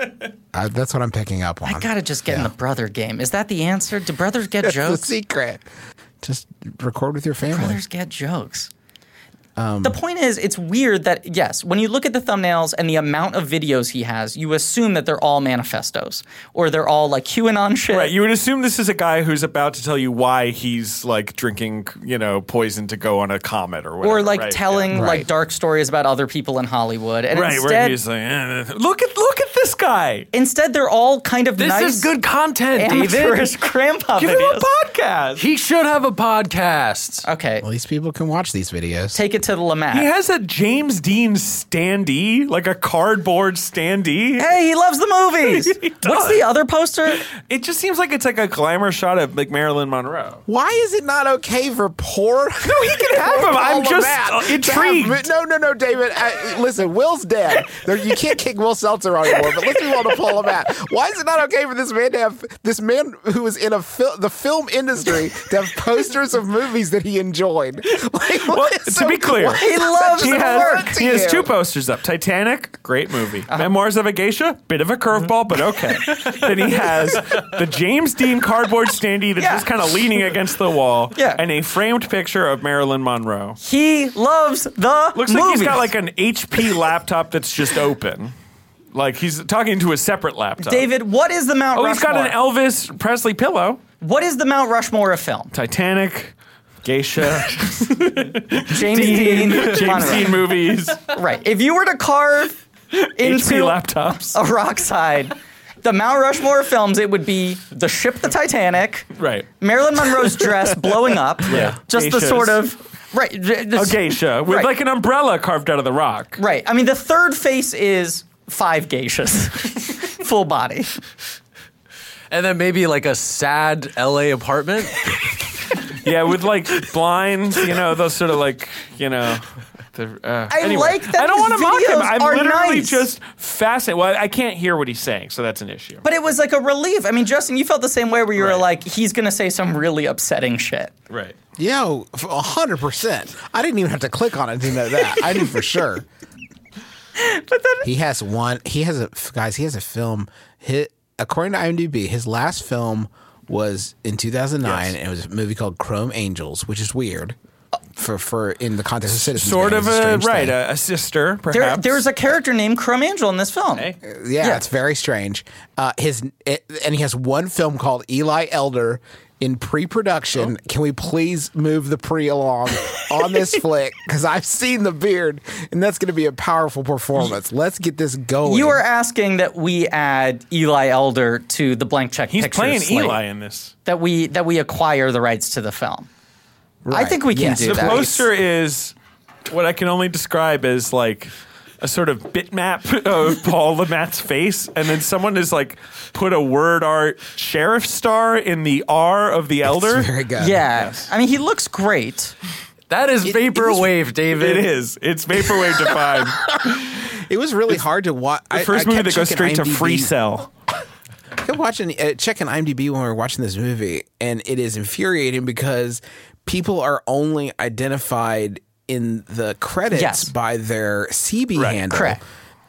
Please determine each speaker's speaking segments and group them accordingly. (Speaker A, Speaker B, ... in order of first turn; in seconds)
Speaker A: 0.5-2.5, 4.6-5.6, 6.2-7.8, 9.6-10.0, 24.9-25.3, 37.6-39.2, 50.5-71.5, 141.6-146.1, 147.8-157.4, 158.0-160.6, 164.0-178.8, 186.8-188.3, 199.7-200.7, 203.2-203.9, 205.7-210.1, 211.4-222.2
Speaker B: 1.6-5.1, 7.5-8.7, 9.8-18.1, 24.0-28.0, 30.3-32.1, 32.8-34.7, 37.2-37.6, 39.1-40.1, 44.4-47.3, 69.5-71.0, 79.4-79.7, 81.2-81.4, 83.6-85.9, 90.6-92.4, 94.0-95.5, 98.6-100.5, 101.0-102.6, 103.2-114.7, 116.4-121.0, 130.5-133.1, 136.0-140.9, 147.2-147.8, 161.5-164.6, 178.4-183.2, 183.8-186.1, 186.9-188.1, 200.4-202.4, 219.9-220.3, 221.9-222.2
Speaker C: 17.9-25.0, 27.3-30.3, 34.2-35.5, 39.9-44.5, 45.5-46.5, 47.2-50.4, 52.6-55.3, 68.3-83.6, 85.2-88.3, 88.9-90.9, 91.8-93.8, 95.5-101.1, 102.9-104.4, 109.2-109.5, 110.0-112.6, 113.8-116.4, 126.0-136.0, 138.4-138.6, 141.1-141.4, 154.6-154.9, 159.2-162.1, 182.3-183.7, 187.5-188.9, 189.5-200.1, 200.7-201.1, 204.3-206.6, 208.5-210.5, 221.6-221.8
Speaker D: 31.6-33.5, 35.4-37.2, 122.3-125.2, 202.9-204.7